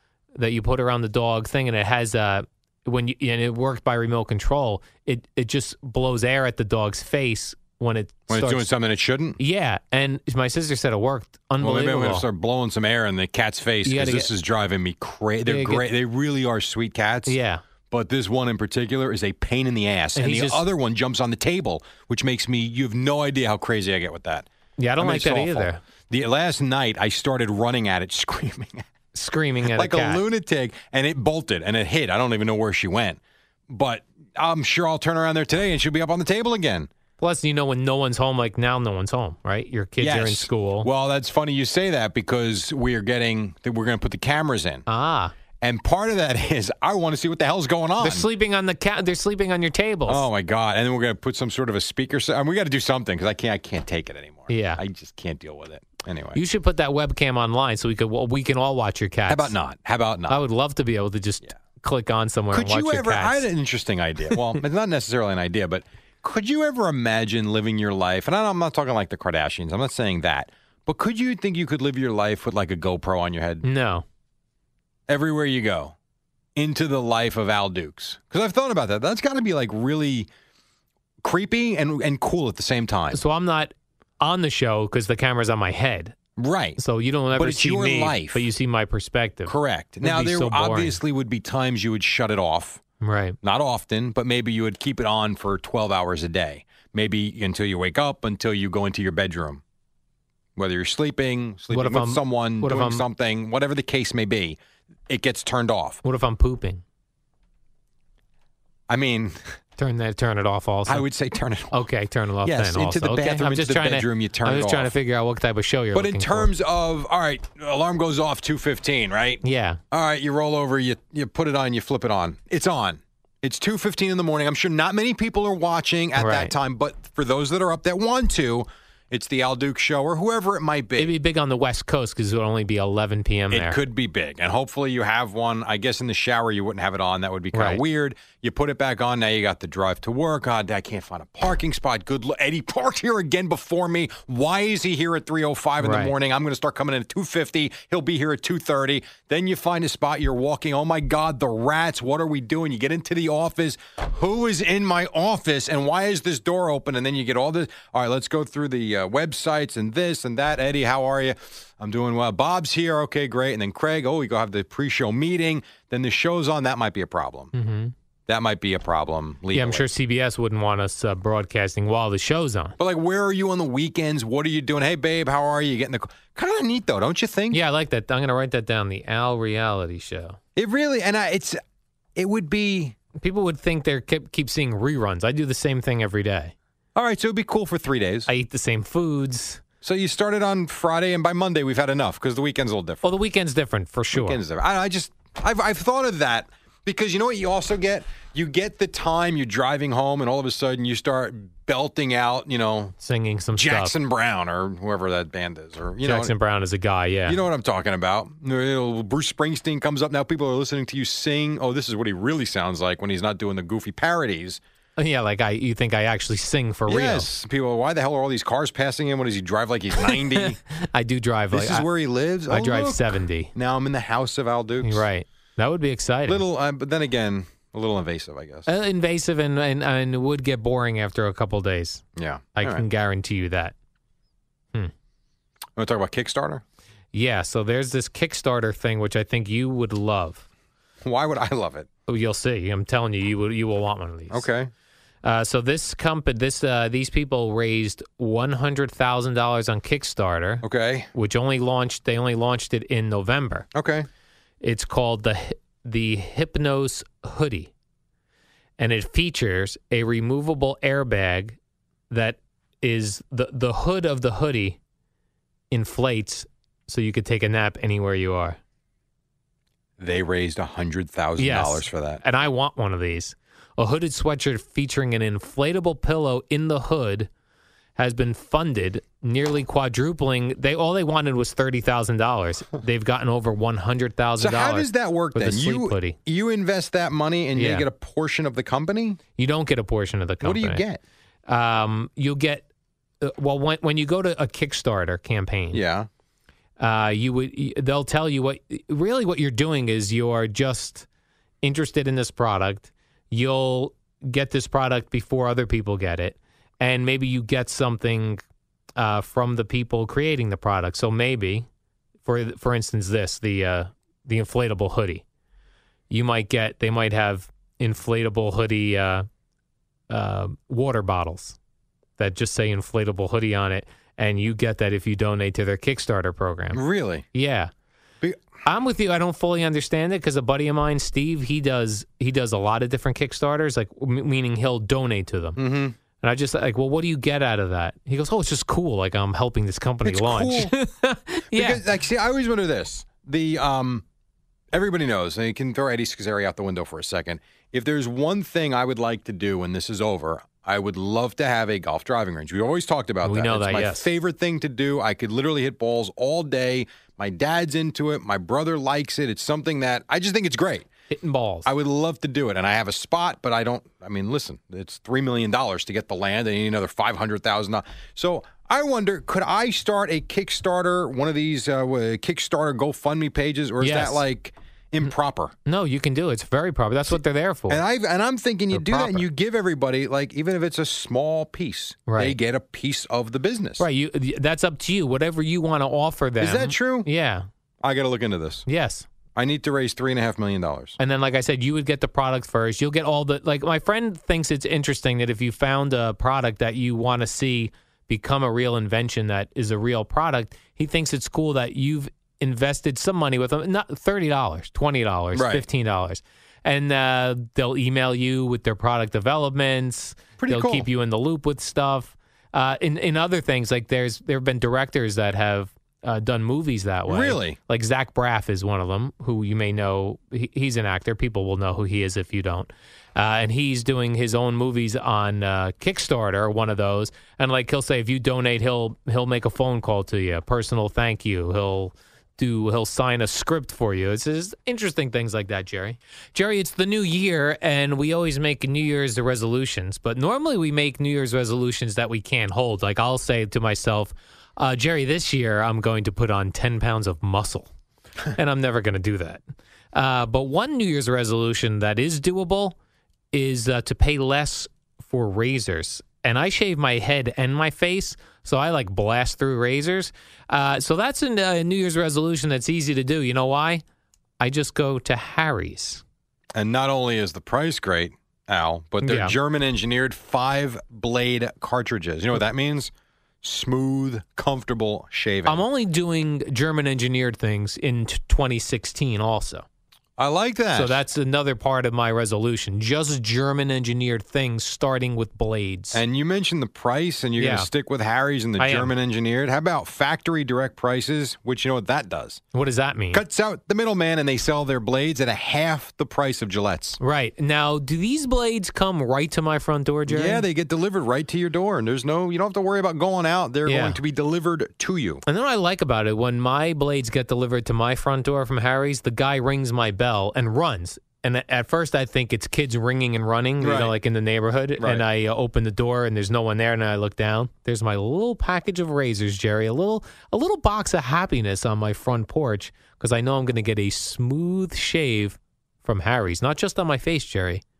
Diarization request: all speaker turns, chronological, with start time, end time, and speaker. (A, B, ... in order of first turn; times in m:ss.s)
0:00.4-0:08.7 A
0:08.3-0:09.4 B
0:09.4-0:12.3 A
0:11.6-0:17.4 B
0:13.8-0:14.3 A
0:15.5-0:15.9 A
0:17.3-0:17.6 A
0:17.9-0:24.5 B
0:20.2-0:20.6 A
0:24.8-0:25.8 A
0:25.0-0:28.8 B
0:29.1-0:30.2 A
0:29.7-0:36.9 B
0:37.2-0:40.9 A
0:40.0-0:44.8 B
0:44.9-0:45.3 A
0:45.6-0:48.3 B
0:48.0-0:50.3 A
0:50.1-0:56.4 B
0:54.5-0:54.8 A
0:56.3-0:59.6 A
0:59.3-1:00.4 B
1:00.3-1:03.4 A
1:02.5-1:13.6 B
1:13.6-1:14.0 A
1:15.1-1:16.0 B
1:16.6-1:20.3 B
1:21.2-1:23.2 B
1:23.1-1:26.2 A
1:26.4-1:26.8 B
1:26.8-1:31.0 A
1:27.4-1:28.4 B
1:29.5-1:32.8 B
1:33.0-1:33.4 A
1:33.4-1:39.6 B
1:40.6-1:46.0 B
1:41.7-1:43.0 A
1:46.0-1:46.8 A
1:48.9-1:49.4 B
1:49.8-1:51.0 A
1:50.9-1:51.8 B
1:51.7-1:56.5 A
1:52.4-1:54.9 B
1:55.9-2:11.1 B
1:59.4-1:59.8 A
2:06.2-2:06.5 A
2:11.0-2:13.8 A
2:13.5-2:47.5 B
2:17.5-2:17.8 A
2:25.8-2:26.1 A
2:47.5-2:47.9 A
2:48.3-2:49.9 B
2:49.5-2:52.8 A
2:52.8-2:57.6 B
2:57.5-3:00.4 A
3:00.6-3:01.6 B
3:02.2-3:03.0 B
3:03.2-3:06.5 A
3:07.0-3:08.3 B
3:08.3-3:09.6 A
3:09.8-3:13.1 B
3:13.0-3:14.4 A
3:14.1-3:23.0 B
3:23.0-3:23.9 A
3:23.6-3:26.3 B
3:26.0-3:27.4 A
3:27.3-3:34.6 B
3:35.0-3:37.3 A
3:36.9-3:40.6 B
3:40.0-3:41.9 A
3:41.5-3:45.0 B
3:42.5-3:43.5 A
3:44.8-3:46.4 A
3:46.3-3:48.7 B
3:48.7-3:52.0 A
3:52.2-3:52.8 B
3:52.6-3:53.8 A
3:55.8-3:56.6 B
3:57.1-4:00.5 A
4:01.0-4:01.9 B
4:02.1-4:04.4 A
4:04.3-4:04.7 B
4:05.2-4:13.7 A
4:10.6-4:11.1 B
4:13.7-4:14.1 B
4:14.6-4:17.7 A
4:18.8-4:21.6 A
4:22.1-4:24.8 A
4:25.7-4:28.6 A
4:30.0-4:32.2 B
4:31.4-4:37.3 A
4:38.0-4:46.2 A
4:44.4-4:49.2 B
4:47.6-4:47.9 A
4:49.4-4:50.8 A
4:50.4-4:51.0 B
4:51.5-4:52.7 A
4:53.2-4:55.8 A
4:55.7-4:56.1 B
4:56.8-5:01.1 A
5:01.6-5:08.4 A
5:09.0-5:11.7 A
5:12.2-5:15.2 A
5:16.1-5:19.3 A
5:20.1-5:21.6 A
5:22.2-5:26.8 A
5:26.7-5:27.2 B
5:27.3-5:27.7 A
5:28.6-5:35.6 A
5:35.6-5:36.0 B
5:36.2-5:41.8 A
5:40.0-5:40.7 B
5:41.5-5:44.0 B
5:44.7-6:00.9 B
5:53.2-5:54.1 A
6:01.1-6:01.7 A
6:01.6-6:15.5 B
6:13.8-6:14.2 A
6:15.7-6:17.8 A
6:17.7-6:23.8 B
6:18.7-6:19.3 A
6:22.1-6:22.4 A
6:23.8-6:27.5 A
6:26.4-6:27.1 B
6:27.8-6:28.7 B
6:28.7-6:29.1 A
6:29.4-6:31.0 B
6:31.0-7:27.7 A
6:45.4-6:45.6 B
6:50.4-6:50.9 B
6:57.1-6:57.6 B
7:28.4-7:29.4 A
7:29.9-7:32.8 A
7:33.3-7:43.8 A
7:44.4-7:46.0 A
7:46.6-7:52.9 B
7:49.0-7:49.4 A
7:53.4-7:55.6 B
7:55.5-7:59.7 A
8:00.2-8:01.0 B
8:00.7-8:06.0 A
8:05.9-8:12.4 B
8:07.4-8:07.7 A
8:08.6-8:08.9 A
8:12.5-8:13.2 A
8:13.1-8:17.0 B
8:17.0-8:20.4 A
8:20.1-8:25.2 B
8:23.7-8:24.0 A
8:25.3-8:47.6 A
8:33.6-8:33.9 B